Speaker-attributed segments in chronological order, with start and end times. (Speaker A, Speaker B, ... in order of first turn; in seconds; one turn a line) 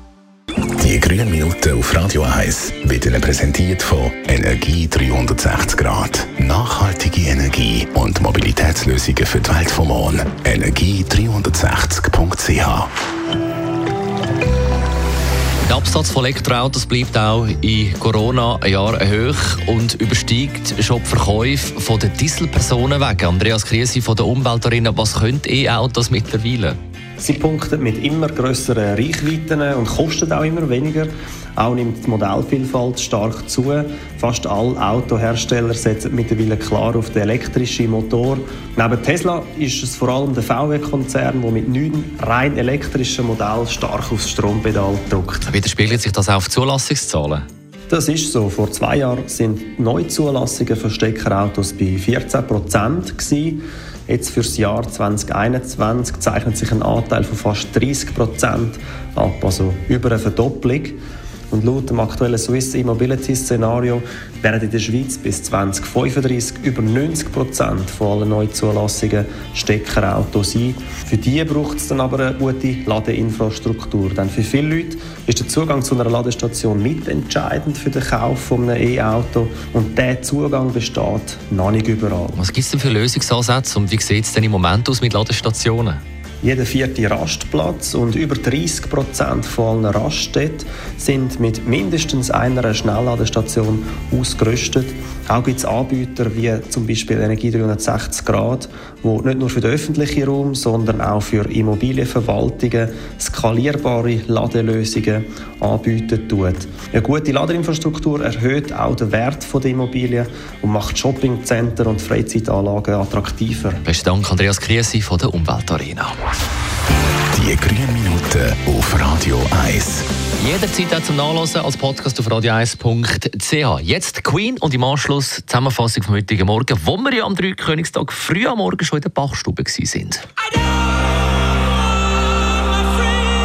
Speaker A: 0.8-12.9
Speaker B: 15.6-26.8
Speaker C: 27.2-45.5
Speaker B: 45.5-47.5
Speaker C: 47.9-61.0
Speaker C: 61.5-82.4
Speaker B: 82.3-86.0
Speaker C: 86.4-113.8
Speaker B: 113.8-116.2
Speaker A: 117.3-120.0
Speaker B: 120.4-130.2